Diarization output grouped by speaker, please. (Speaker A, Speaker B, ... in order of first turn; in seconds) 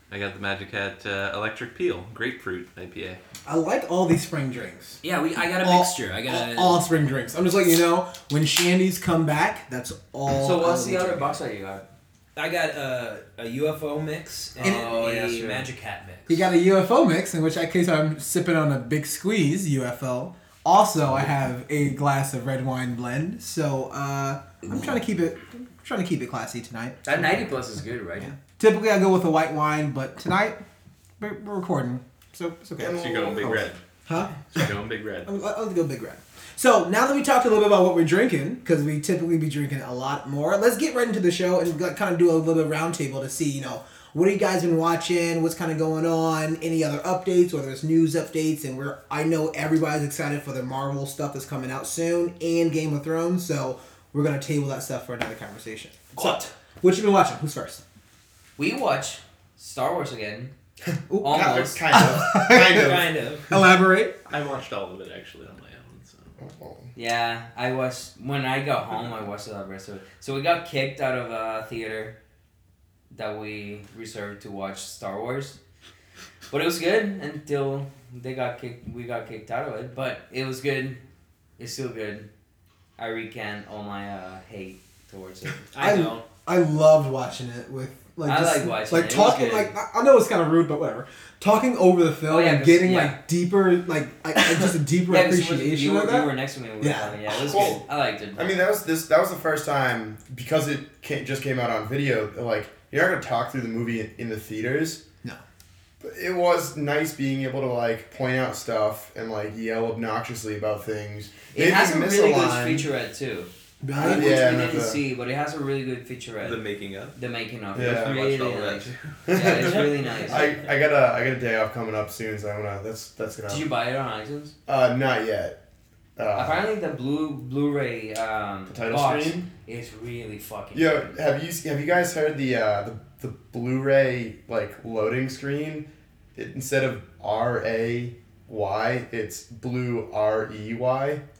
Speaker A: 0.1-3.2, 32.9-33.8, 34.5-35.3, 64.3-66.4, 116.4-117.2, 117.8-120.1
Speaker B: 3.5-5.0, 5.6-11.4, 16.3-27.4, 28.2-30.6, 31.2-33.2, 34.1-34.4, 35.2-57.8, 61.1-64.2, 85.8-97.8, 113.8-114.4
Speaker C: 5.0-6.8, 12.3-16.4, 56.1-56.4, 62.6-63.5, 85.7-86.2, 120.0-120.6
Speaker D: 10.3-11.8, 14.6-15.7, 27.0-28.3, 56.1-56.5, 58.6-60.5, 61.2-61.8, 66.9-72.2, 73.1-75.6, 76.5-81.0, 81.6-82.3, 83.0-85.7, 88.2-89.7, 92.3-93.2, 94.4-98.6, 111.5-116.6, 117.1-120.7, 123.5-124.5, 126.3-131.2
Speaker E: 32.8-33.7, 61.2-63.6, 66.4-66.9, 97.4-105.0, 106.0-112.9, 113.9-115.0, 117.7-118.1, 119.3-123.7, 124.7-125.6, 126.2-126.7, 128.7-129.5, 130.7-141.2